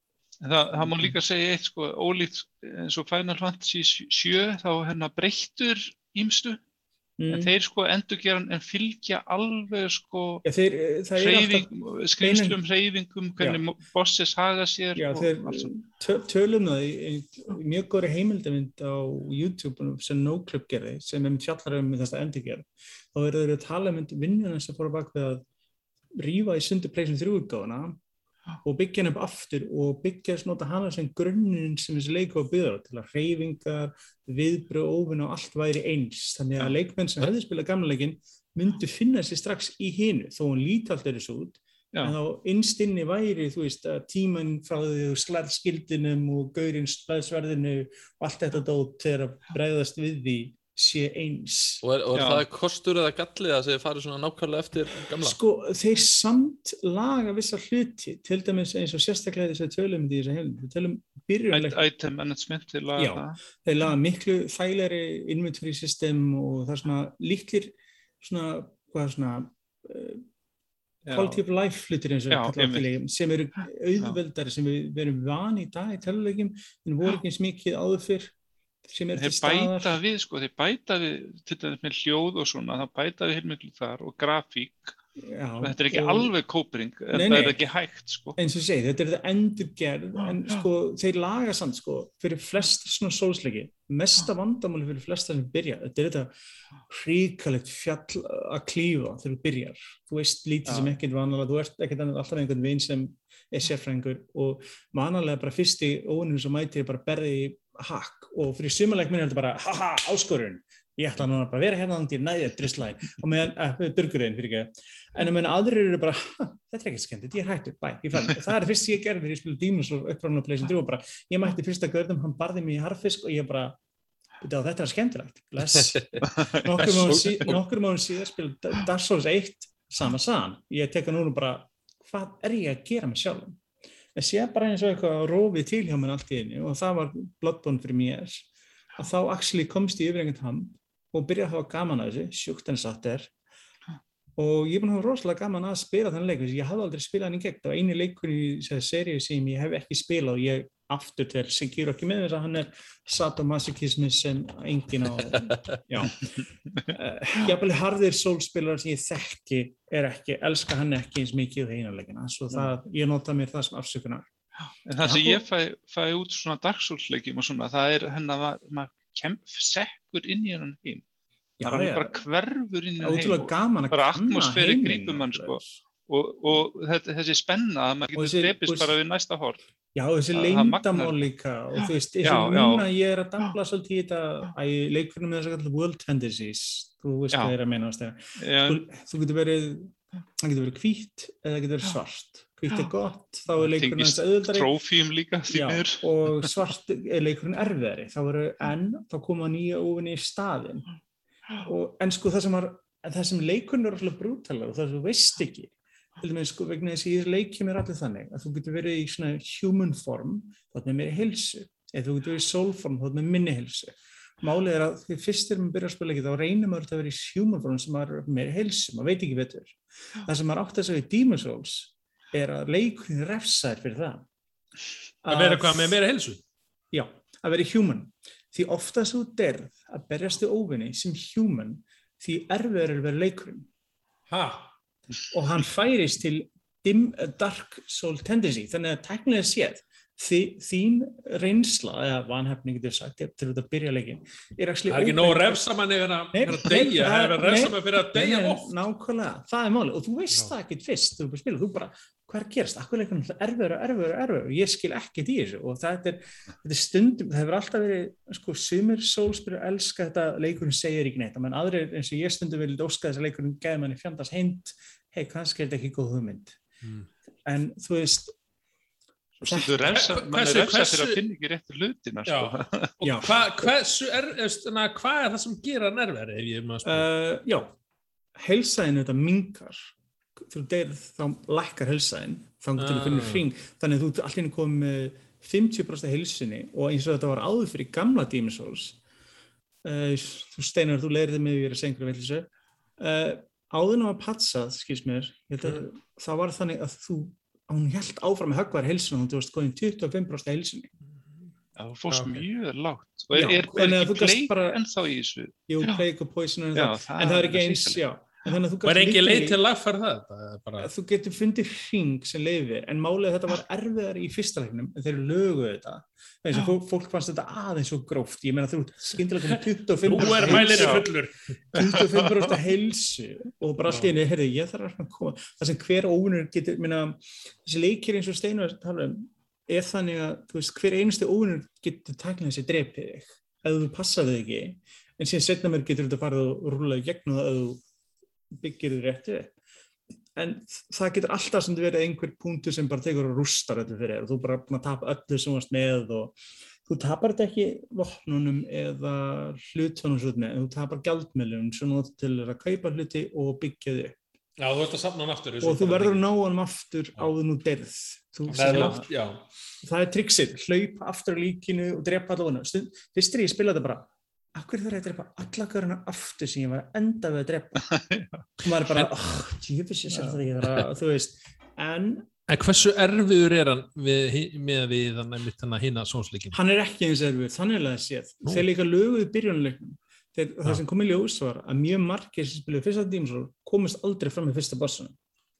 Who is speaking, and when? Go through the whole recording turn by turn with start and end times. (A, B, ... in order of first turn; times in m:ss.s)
0:00.4-0:06.6 A
0:00.8-0:01.1 B
0:07.2-0:07.6 B
0:07.3-0:10.4 A
0:10.4-0:12.6 B
0:11.2-0:15.7 A
0:15.0-0:25.4 B
0:26.2-0:28.0 B
0:28.6-0:51.8 B
0:51.8-0:55.4 C
0:52.1-0:52.4 A
0:55.2-1:01.8 B
1:01.5-1:03.4 A
1:03.0-1:10.2 B
1:11.0-1:11.4 A
1:11.1-1:18.3 B
1:12.3-1:12.8 A
1:18.8-1:20.0 B
1:19.2-1:24.9 A
1:25.2-1:26.3 B
1:25.6-1:28.4 A
1:27.1-1:27.6 B
1:28.4-1:36.3 B
1:36.9-2:03.8 B
1:40.7-1:40.9 A
2:04.4-2:13.6 B
2:05.8-2:06.2 C
2:06.3-2:06.6 A
2:06.8-2:07.6 C
2:14.1-2:23.3 B
2:24.4-2:44.3 B
2:35.3-2:35.8 C
2:44.7-2:51.0 A
2:45.0-2:45.4 B
2:51.6-2:52.2 B
2:51.6-2:59.6 A
2:53.0-2:55.8 B
2:58.1-2:59.0 B
2:59.9-3:14.7 B
3:00.3-3:01.2 A
3:02.2-3:02.8 A
3:08.4-3:08.8 A
3:13.6-3:16.4 A
3:15.5-3:20.8 B
3:21.6-3:44.2 B
3:45.2-3:46.0 B
3:45.3-3:46.4 D
3:46.9-3:53.7 B
3:54.3-3:54.7 D
3:55.3-4:05.6 B
4:04.9-4:08.7 D
4:06.3-4:26.6 B
4:26.8-4:27.1 D
4:27.4-4:28.3 B
4:29.4-4:32.9 A
4:29.4-4:30.0 B
4:29.9-4:31.2 D
4:32.3-4:37.1 D
4:33.0-4:33.7 B
4:36.8-4:37.7 B
4:38.4-4:49.0 B
4:42.8-4:43.4 D
4:49.8-4:52.5 B
4:53.0-5:00.9 B
5:01.8-5:06.0 A
5:02.1-5:02.4 D
5:03.3-5:04.8 B
5:05.7-5:09.6 B
5:06.7-5:08.0 A
5:08.8-5:10.9 D
5:10.8-5:21.0 B
5:20.0-5:21.4 D
5:20.2-5:21.0 A
5:21.7-5:37.8 B
5:21.7-5:22.5 A
5:38.5-5:39.5 B
5:40.4-5:54.2 B
5:54.6-5:56.2 D
5:55.6-5:59.0 B
5:58.5-5:59.4 D
5:58.6-5:59.0 A
5:59.8-6:07.8 B
6:07.8-6:08.5 A
6:08.6-6:12.3 B
6:12.5-6:16.6 D
6:16.5-6:25.2 B